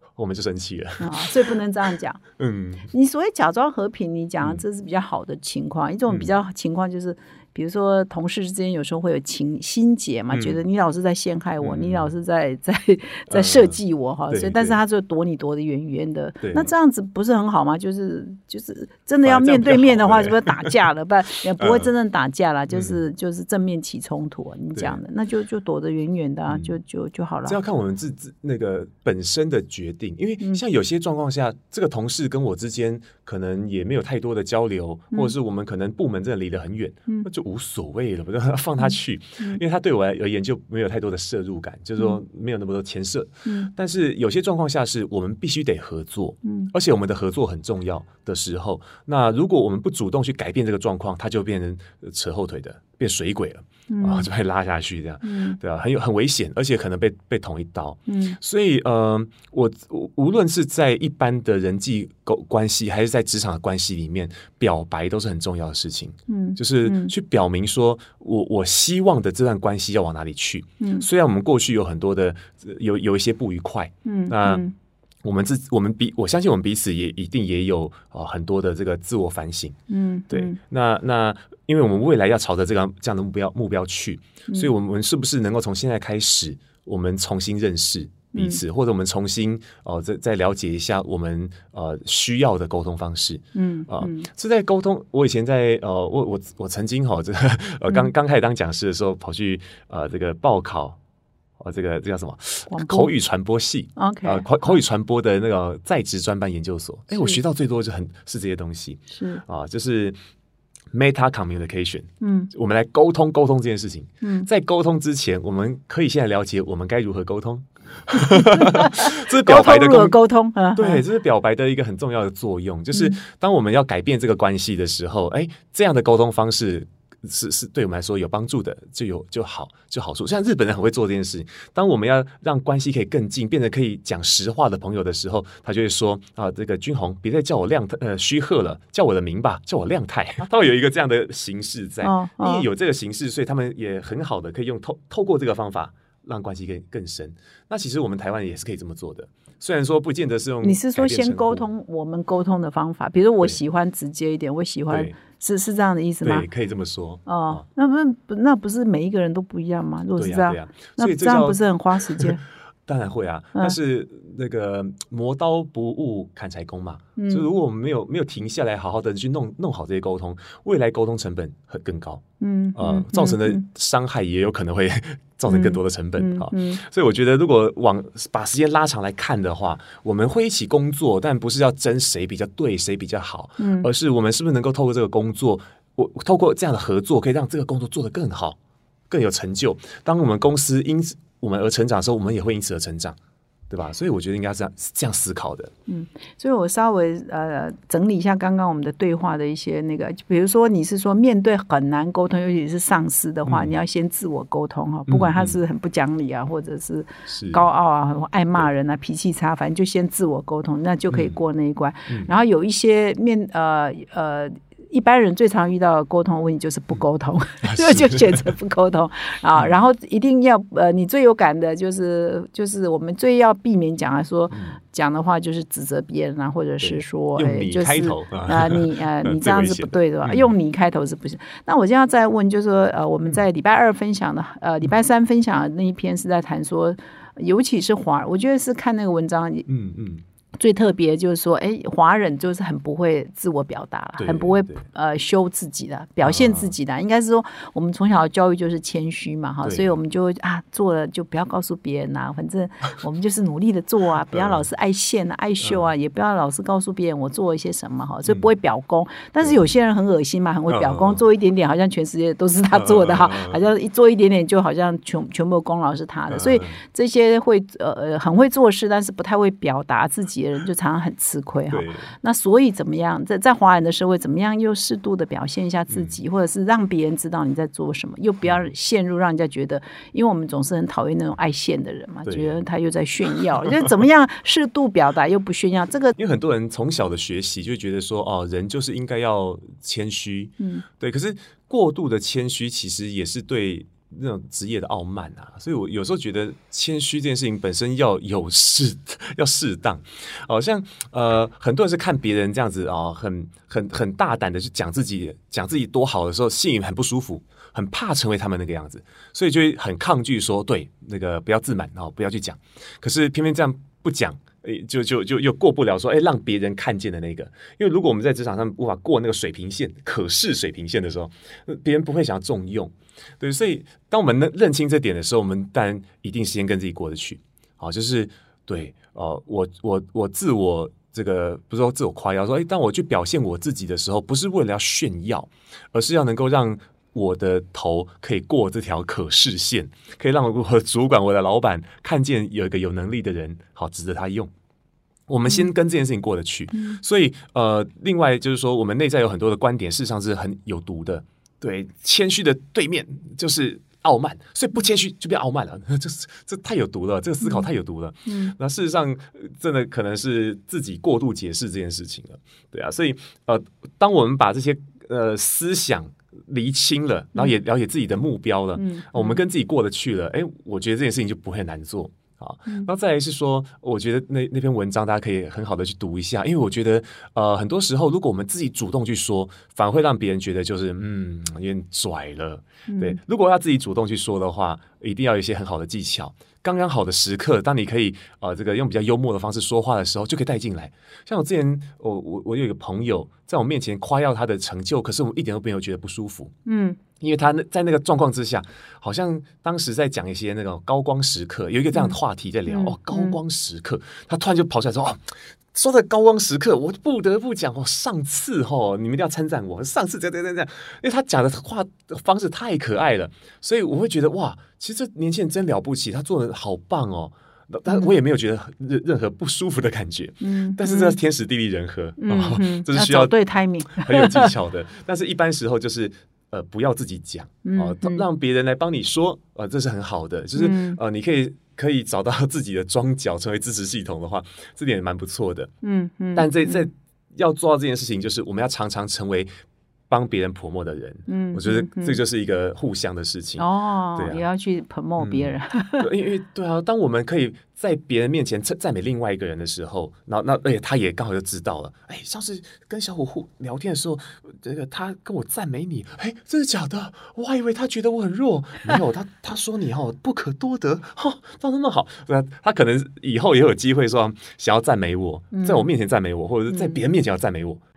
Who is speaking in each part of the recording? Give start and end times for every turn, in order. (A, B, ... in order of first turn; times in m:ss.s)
0:00.2-0:01.4 A
0:01.0-0:02.2 B
0:02.4-0:02.9 A
0:02.9-0:27.6 B
0:10.3-0:10.6 A
0:11.6-0:12.1 A
0:13.3-0:14.8 A
0:16.4-0:16.7 A
0:19.2-0:20.8 A
0:21.6-0:21.9 A
0:22.7-0:23.0 A
0:24.7-0:25.0 A
0:26.5-0:26.8 A
0:27.4-1:14.6 A
0:43.4-0:43.7 B
0:46.4-0:46.7 B
0:53.9-0:54.3 B
0:55.2-0:55.6 B
0:58.1-0:58.4 B
1:06.3-1:07.1 B
1:10.8-1:11.1 B
1:14.0-1:14.7 B
1:15.2-1:19.8 A
1:19.9-1:20.6 B
1:20.3-1:41.0 A
1:28.3-1:28.6 B
1:33.5-1:34.3 B
1:41.6-1:50.2 A
1:42.7-1:43.1 B
1:44.0-1:44.8 B
1:47.1-1:47.4 B
1:49.1-1:49.4 B
1:50.9-2:00.2 A
1:52.2-1:52.5 B
1:54.2-1:54.5 B
1:58.3-2:01.0 B
2:00.7-2:31.6 A
2:22.0-2:22.7 B
2:30.6-2:36.4 B
2:34.9-2:35.2 A
2:36.2-2:37.6 A
2:37.2-2:42.4 B
2:40.2-2:42.3 A
2:42.8-2:52.2 A
2:47.2-2:47.5 B
2:52.4-2:53.6 B
2:52.8-3:08.6 A
2:55.4-2:56.8 B
3:03.6-3:03.9 B
3:09.1-3:13.2 A
3:13.7-3:15.7 A
3:15.9-3:59.6 B
3:23.4-3:23.7 A
3:25.1-3:25.6 A
3:27.3-3:27.6 A
3:31.1-3:31.3 A
3:37.6-3:38.4 A
3:44.5-3:44.8 A
3:46.8-3:50.5 A
3:59.7-4:00.2 A
4:00.6-4:46.1 B
4:04.2-4:04.8 A
4:06.2-4:06.7 A
4:09.6-4:09.9 A
4:14.3-4:14.6 A
4:20.7-4:21.2 A
4:22.7-4:23.6 A
4:26.3-4:26.8 A
4:31.7-4:32.1 A
4:35.9-4:36.2 A
4:42.2-4:42.6 A
4:46.1-5:44.5 A
5:45.3-6:36.5 A
5:46.7-5:47.0 B
5:57.4-5:57.6 B
5:58.2-5:58.5 B
6:08.8-6:09.4 B
6:22.9-6:23.2 B
6:36.6-6:37.0 B
6:37.2-7:03.3 A
6:42.7-6:43.4 B
7:00.4-7:01.2 B
7:02.2-7:04.5 B
7:03.9-7:15.7 A
7:07.6-7:08.2 B
7:10.6-7:11.0 B
7:15.8-7:16.9 B
7:16.3-7:19.5 A
7:20.1-7:24.4 A
7:21.3-7:22.2 B
7:23.6-7:26.1 B
7:25.2-7:47.8 A
7:45.5-7:45.9 B
7:46.7-7:47.0 B